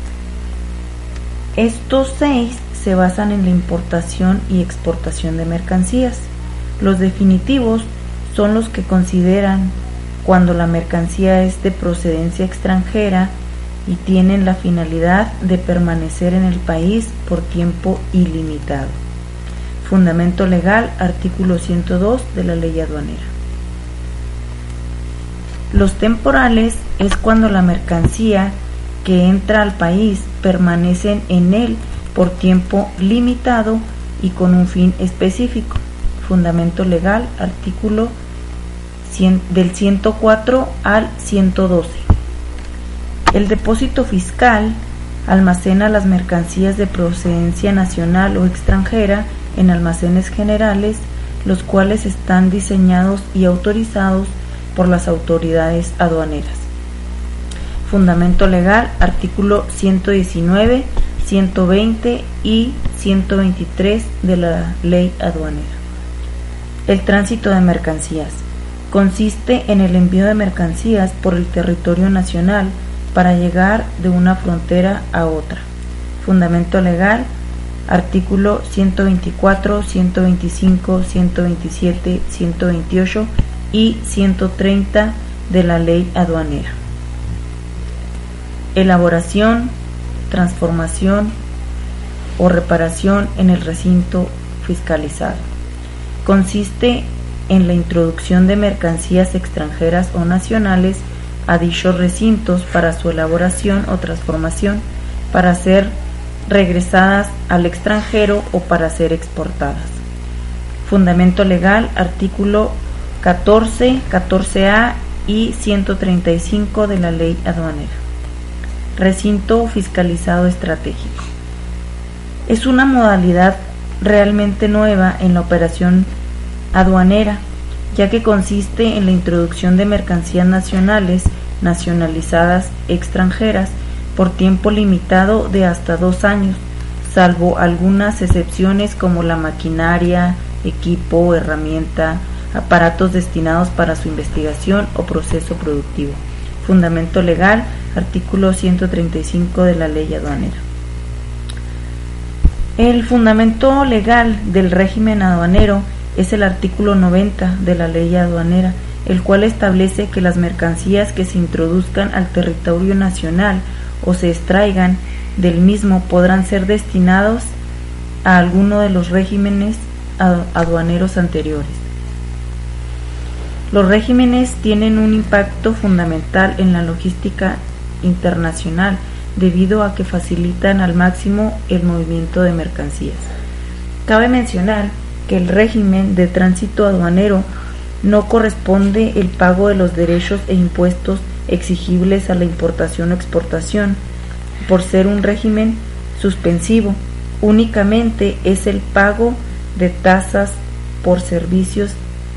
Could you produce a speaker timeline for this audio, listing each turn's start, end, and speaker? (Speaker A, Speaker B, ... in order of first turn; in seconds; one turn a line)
Speaker A: 1.6-19.0
Speaker A: 19.8-23.3
Speaker A: 25.7-38.2
Speaker A: 39.0-42.0
Speaker A: 43.3-56.7
Speaker A: 57.8-65.8
Speaker A: 66.8-75.7
Speaker A: 76.2-77.3
Speaker A: 77.9-86.8
Speaker A: 88.7-89.7
Speaker A: 90.3-91.3
Speaker A: 92.4-95.5
Speaker A: 96.2-106.0
Speaker A: 106.5-110.0
Speaker A: 110.8-118.0
Speaker A: 119.0-121.2
Speaker A: 122.5-126.1
Speaker A: 126.7-150.6
Speaker A: 152.8-167.5
Speaker A: 168.2-171.9
Speaker A: 173.7-183.3
Speaker A: 184.1-187.5
Speaker A: 188.0-194.0
Speaker A: 194.6-202.0